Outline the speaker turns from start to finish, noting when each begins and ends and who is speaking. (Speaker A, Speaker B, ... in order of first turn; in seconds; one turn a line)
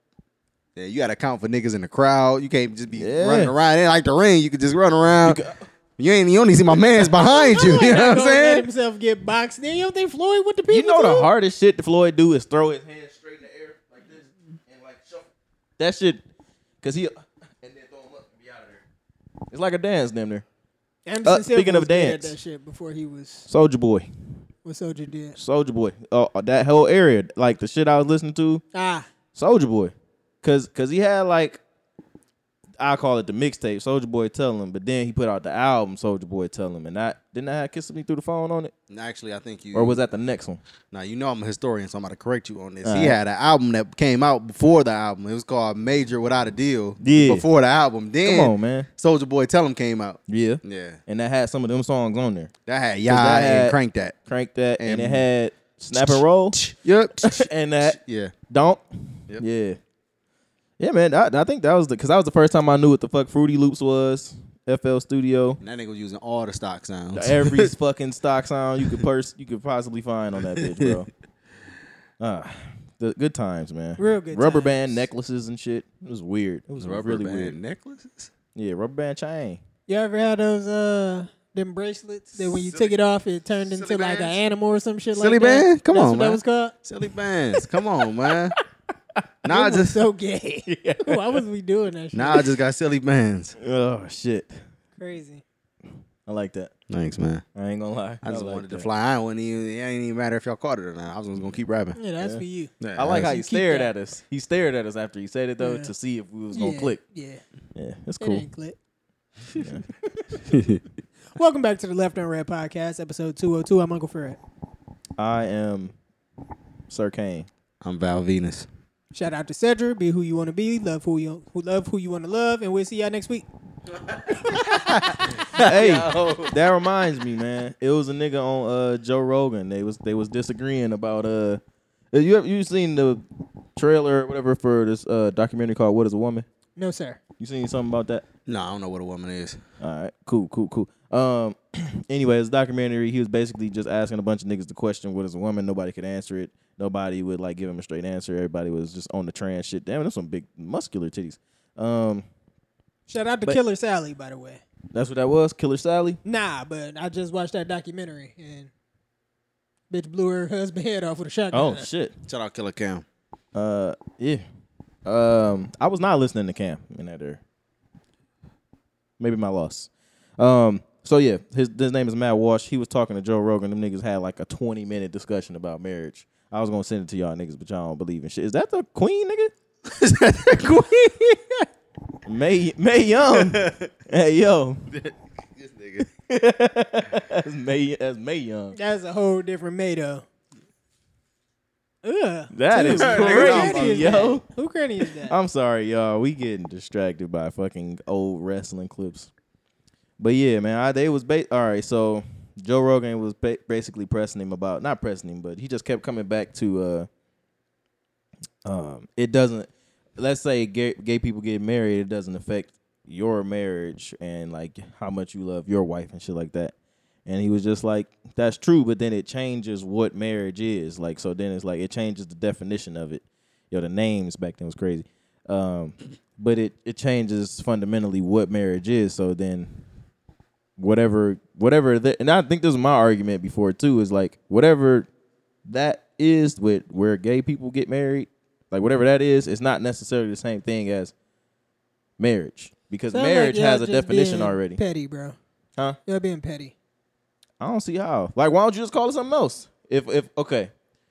Speaker A: 0.8-5.4
Speaker B: 2.9-3.5
Speaker B: 5.2-5.6
Speaker A: 6.0-8.7
Speaker C: 7.1-11.3
Speaker B: 10.7-15.3
Speaker B: 15.8-16.2
Speaker B: 16.8-18.8
Speaker B: 19.5-20.4
Speaker C: 21.1-23.5
Speaker B: 21.2-22.4
Speaker B: 23.5-24.1
Speaker C: 24.6-25.4
Speaker B: 25.4-28.6
Speaker C: 28.7-29.1
Speaker B: 29.4-31.6
Speaker B: 32.8-38.7
Speaker A: 38.9-40.0
Speaker B: 39.7-40.6
Speaker A: 40.9-51.0
Speaker B: 42.8-43.2
Speaker B: 47.0-47.5
Speaker B: 48.2-48.9
Speaker B: 50.3-52.5
Speaker A: 52.7-54.1
Speaker B: 53.1-59.8
Speaker A: 54.8-55.2
Speaker A: 55.9-58.4
Speaker B: 60.8-65.6
Speaker A: 65.6-67.7
Speaker B: 67.1-71.1
Speaker A: 70.5-71.0
Speaker B: 72.2-77.5
Speaker C: 74.0-75.0
Speaker A: 76.8-78.3
Speaker B: 78.5-79.6
Speaker C: 79.9-86.8
Speaker A: 82.4-82.9
Speaker A: 83.7-84.4
Speaker A: 85.2-88.5
Speaker A: 89.4-90.0
Speaker C: 89.5-92.5
Speaker B: 90.7-91.4
Speaker A: 92.1-93.6
Speaker B: 93.6-94.6
Speaker C: 95.0-95.4
Speaker B: 96.3-96.7
Speaker A: 96.9-97.4
Speaker B: 97.6-98.9
Speaker A: 98.2-102.0
Speaker C: 102.0-103.9
Speaker A: 102.8-103.3
Speaker B: 103.0-107.0
Speaker C: 105.6-105.9
Speaker C: 106.5-107.4
Speaker B: 107.8-108.5
Speaker C: 108.2-108.8
Speaker B: 109.5-109.9
Speaker A: 110.5-110.8
Speaker C: 111.3-114.4
Speaker B: 115.2-115.9
Speaker B: 116.9-117.5
Speaker A: 117.8-118.7
Speaker C: 119.1-123.5
Speaker A: 124.3-126.5
Speaker C: 124.5-125.4
Speaker B: 125.5-131.6
Speaker B: 132.1-133.2
Speaker B: 133.8-136.5
Speaker C: 136.8-137.2
Speaker B: 137.4-138.2
Speaker A: 138.5-139.6
Speaker B: 139.8-152.2
Speaker C: 153.1-154.6
Speaker B: 154.9-156.2
Speaker C: 156.2-158.7
Speaker C: 159.9-161.9
Speaker B: 161.5-162.1
Speaker A: 162.3-163.1
Speaker B: 163.5-164.4
Speaker B: 165.1-167.4
Speaker B: 169.2-179.5
Speaker A: 179.9-181.7
Speaker B: 182.3-184.8
Speaker A: 183.3-183.9
Speaker A: 184.9-186.1
Speaker B: 186.3-188.8
Speaker C: 188.8-190.2
Speaker C: 192.0-195.3
Speaker B: 192.5-194.4
Speaker A: 193.0-194.2
Speaker B: 195.3-199.3
Speaker B: 200.2-207.1
Speaker B: 208.7-216.7
Speaker B: 217.3-229.7
Speaker B: 230.8-235.1
Speaker B: 235.7-241.1
Speaker B: 242.2-244.8
Speaker C: 243.1-245.4
Speaker C: 246.1-246.7
Speaker B: 247.6-250.7